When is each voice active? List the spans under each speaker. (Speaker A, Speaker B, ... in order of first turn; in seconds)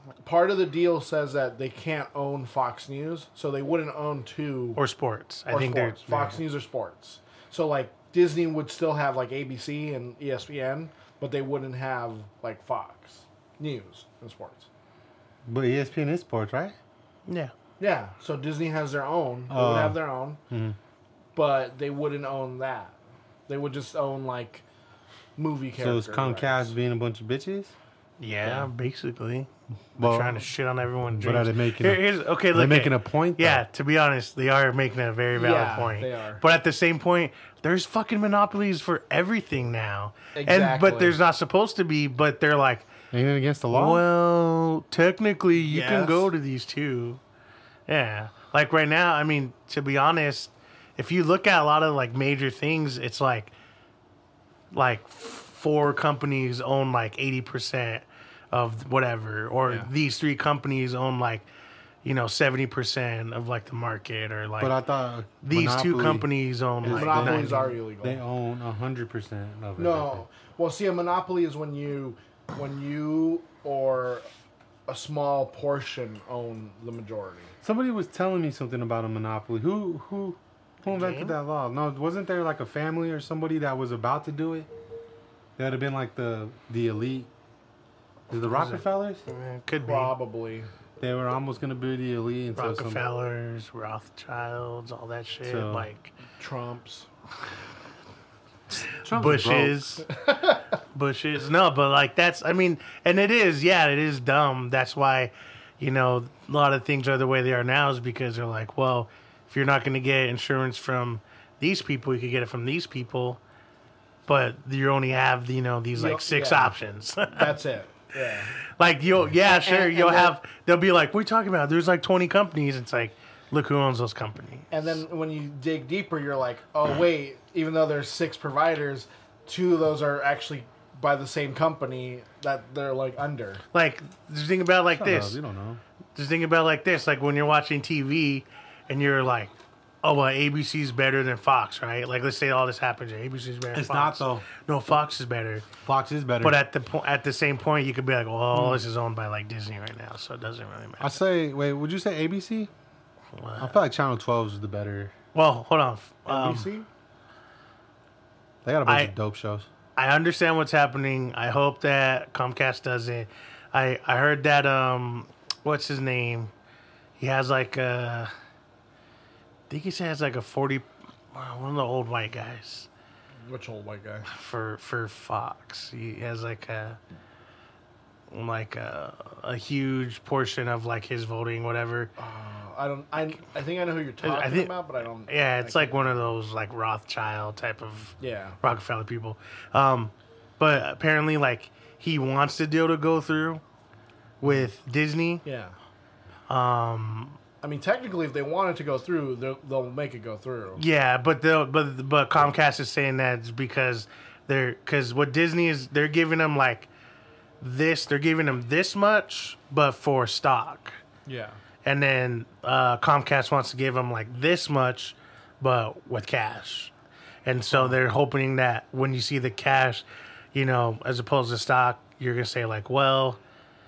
Speaker A: 0.2-4.8, 5.5-14.7, 17.8-20.4, 21.4-23.0, 23.5-24.6, 25.4-26.7, 35.3-36.4, 40.3-41.2, 45.6-46.3, 66.8-68.2, 69.8-74.3, 74.9-77.5, 89.8-90.7, 96.4-97.1, 100.2-100.5, 115.9-116.8, 117.3-118.5, 119.4-120.3, 124.7-133.6, 156.3-156.9, 173.4-174.3, 182.2-186.1, 188.2-188.6, 194.4-194.7, 195.4-195.8, 197.6-200.8, 211.2-211.6, 217.7-218.0
Speaker B: 4.8-6.4, 17.3-17.5, 28.2-42.9, 43.7-47.2, 47.9-53.5, 54.7-61.5, 62.0-64.8, 65.4-67.8, 80.8-81.4, 88.5-90.1, 92.5-96.1, 99.0-100.2, 100.9-113.4, 114.3-117.6, 118.8-125.0, 133.7-135.4, 136.1-145.7, 146.4-151.2, 153.4-153.8, 155.3-156.7, 158.9-159.1, 159.9-166.5, 167.2-168.3, 169.7-172.9, 174.3-177.0, 178.3-182.1, 184.2-193.6, 194.4-195.4, 196.5-197.4, 200.8-206.9, 207.6-211.0, 211.8-216.9, 217.4-223.4
Speaker C: 15.4-16.8, 19.5-20.8, 25.8-27.8, 30.0-30.4, 31.1-33.6, 43.1-44.0, 64.6-66.3, 66.8-70.2, 77.6-84.7, 85.6-87.3, 88.3-89.2, 91.0-93.0, 95.4-95.9, 98.7-99.8, 134.9-135.8, 143.7-144.4, 145.8-146.6, 151.0-152.7, 153.6-155.1, 158.6-159.7